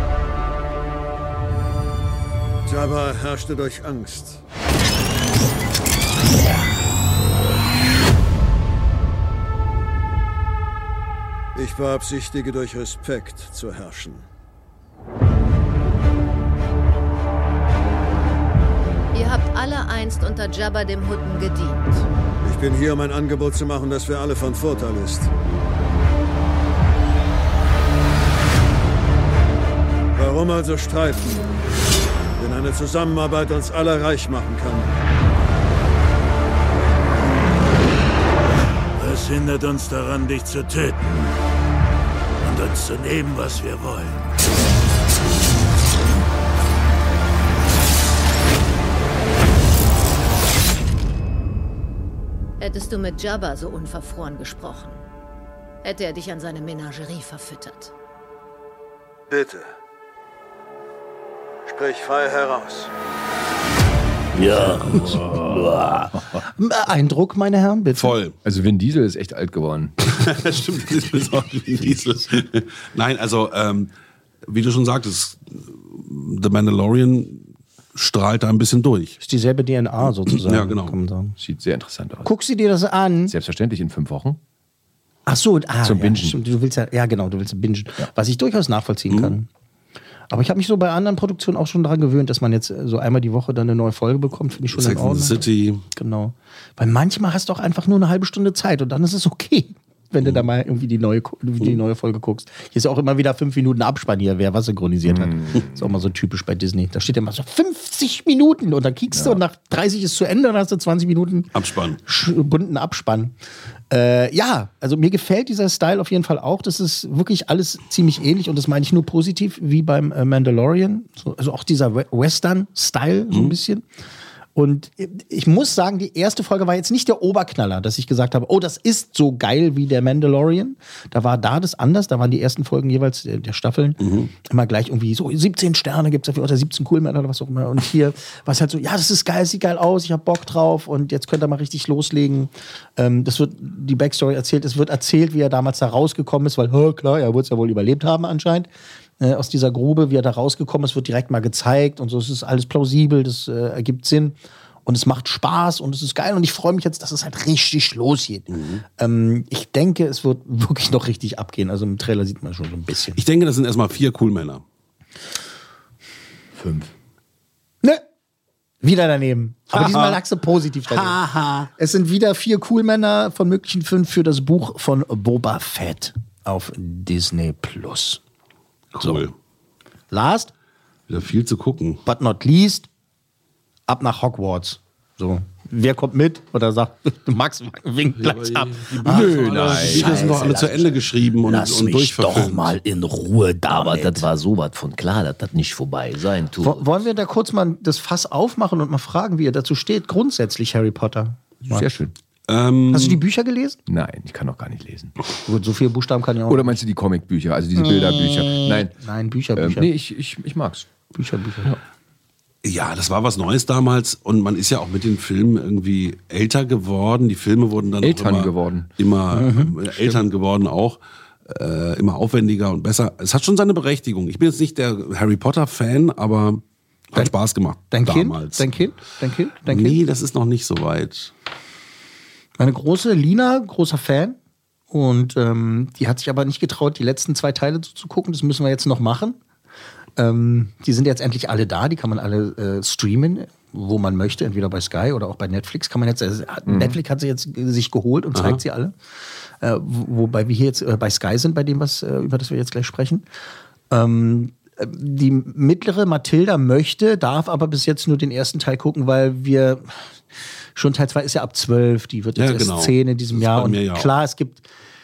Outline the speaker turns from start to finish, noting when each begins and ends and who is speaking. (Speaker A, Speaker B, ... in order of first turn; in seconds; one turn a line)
Speaker A: 2.7-4.4
Speaker A: 11.5-14.2
Speaker B: 19.1-22.0
Speaker A: 22.4-25.3
Speaker A: 30.1-31.5
Speaker A: 32.4-34.9
Speaker C: 39.0-41.1
Speaker C: 42.4-44.2
Speaker B: 52.6-55.0
Speaker B: 55.8-57.9
Speaker A: 59.3-59.7
Speaker A: 61.6-62.9
Speaker D: 64.3-68.1
Speaker E: 68.0-68.3
Speaker F: 68.4-69.9
Speaker E: 70.1-73.9
Speaker E: 74.5-79.2
Speaker D: 79.2-81.3
Speaker E: 80.2-80.9
Speaker F: 81.4-82.3
Speaker D: 82.2-83.3
Speaker F: 83.3-84.4
Speaker D: 85.3-89.5
Speaker F: 85.8-86.4
Speaker E: 89.1-89.3
Speaker D: 90.3-95.4
Speaker E: 94.7-95.8
Speaker D: 95.9-111.5
Speaker F: 105.0-105.9
Speaker F: 109.1-109.4
Speaker E: 111.5-112.0
Speaker D: 112.0-113.3
Speaker D: 113.9-123.8
Speaker D: 124.5-163.2
Speaker E: 134.0-134.3
Speaker E: 158.5-158.8
Speaker E: 163.2-164.6
Speaker F: 166.5-166.9
Speaker D: 168.8-178.2
Speaker E: 169.7-170.2
Speaker E: 178.9-179.3
Speaker D: 179.0-179.2
Speaker D: 180.1-180.5
Speaker E: 181.1-182.0
Speaker D: 182.1-182.9
Speaker D: 183.9-190.9
Speaker E: 188.2-192.8
Speaker F: 189.0-190.8
Speaker D: 191.4-194.3
Speaker G: 193.7-196.9
Speaker D: 196.6-201.9
Speaker F: 201.7-202.1
Speaker E: 202.5-203.2
Speaker D: 202.9-203.8
Speaker F: 203.9-205.1
Speaker D: 205.4-206.8
Speaker F: 206.5-208.9
Speaker D: 208.0-209.9
Speaker F: 209.6-210.9
Speaker D: 211.1-211.8
Speaker E: 212.6-226.6
Speaker F: 218.0-218.9
Speaker D: 219.3-220.2
Speaker E: 227.1-228.8
Speaker D: 227.9-230.0
Speaker E: 229.7-231.3
Speaker D: 232.6-234.4
Speaker D: 234.9-239.4
Speaker D: 240.2-248.9
Speaker F: 246.7-247.0
Speaker E: 248.3-248.6
Speaker D: 249.6-253.2
Speaker D: 253.9-259.9
Speaker D: 260.8-264.6
Speaker E: 262.4-264.1